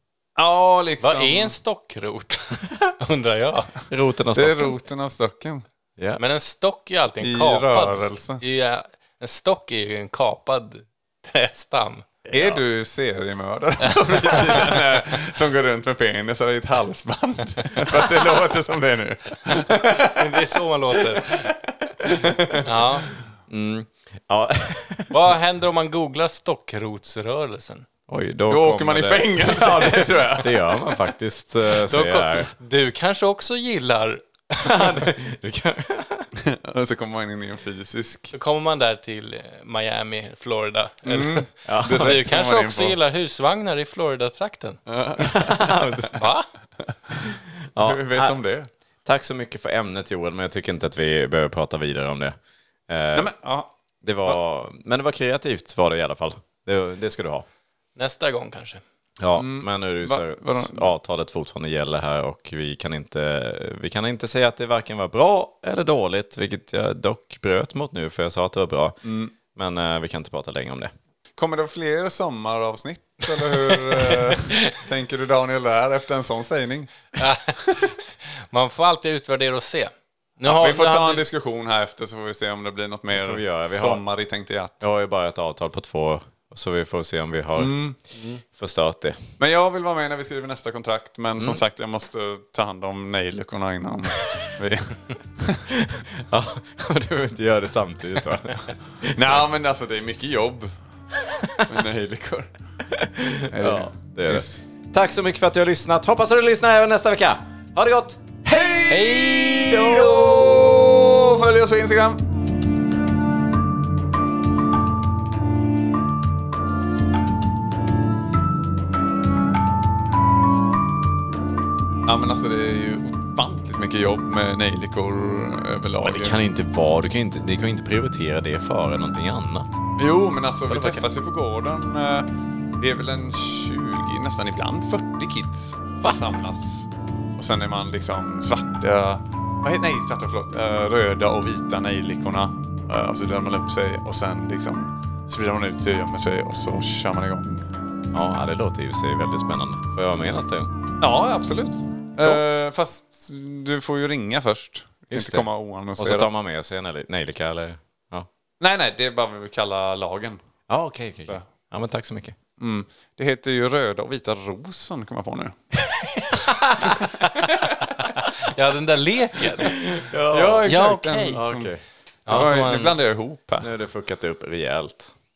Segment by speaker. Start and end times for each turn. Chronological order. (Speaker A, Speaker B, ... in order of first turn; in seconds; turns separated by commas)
Speaker A: 0.4-1.6, Speaker B: 1.0-3.8, Speaker C: 3.9-4.8, Speaker A: 4.3-5.7, Speaker B: 6.2-12.1, Speaker A: 7.2-8.4, Speaker C: 12.3-12.6, Speaker A: 12.3-22.7, Speaker B: 13.8-14.8, Speaker B: 19.5-21.5, Speaker B: 22.6-23.1, Speaker C: 23.5-25.3, Speaker B: 25.1-27.9, Speaker C: 28.1-32.5, Speaker A: 28.5-30.8, Speaker B: 31.6-35.0, Speaker C: 34.6-36.3, Speaker A: 36.4-38.3, Speaker B: 38.3-44.8, Speaker A: 41.1-43.0, Speaker C: 41.6-42.2, Speaker A: 44.9-46.2, Speaker C: 45.2-46.2, Speaker B: 46.1-46.5, Speaker A: 47.1-48.7, Speaker C: 47.3-48.4, Speaker C: 49.0-53.3, Speaker A: 53.1-53.7, Speaker C: 54.0-57.5, Speaker B: 58.0-58.8, Speaker C: 59.2-69.0, Speaker A: 59.4-60.9, Speaker A: 69.0-69.3, Speaker C: 69.5-70.9, Speaker A: 71.4-77.1, Speaker B: 73.9-74.8, Speaker B: 77.2-81.2, Speaker A: 80.5-84.9, Speaker C: 83.1-84.0, Speaker C: 84.8-87.8, Speaker A: 87.6-88.0, Speaker B: 88.2-88.4, Speaker C: 88.5-89.2, Speaker A: 89.4-95.7, Speaker C: 91.4-91.6, Speaker C: 95.7-99.5, Speaker A: 99.1-100.7, Speaker A: 101.6-102.5, Speaker C: 102.9-110.7, Speaker A: 103.5-104.6, Speaker A: 108.5-112.2, Speaker A: 122.1-126.4, Speaker C: 126.0-129.8, Speaker A: 130.0-147.7, Speaker C: 130.7-131.1, Speaker C: 148.1-150.7, Speaker A: 151.0-156.3, Speaker C: 152.2-152.6, Speaker C: 155.1-158.3, Speaker A: 158.6-160.4, Speaker C: 160.7-162.4, Speaker A: 162.6-165.6, Speaker C: 165.8-167.3, Speaker A: 167.2-167.9, Speaker B: 168.0-169.8, Speaker C: 169.6-170.7, Speaker A: 170.3-171.7, Speaker B: 170.7-171.5, Speaker C: 171.3-171.8, Speaker B: 172.3-173.0, Speaker A: 172.3-173.7, Speaker C: 173.6-175.1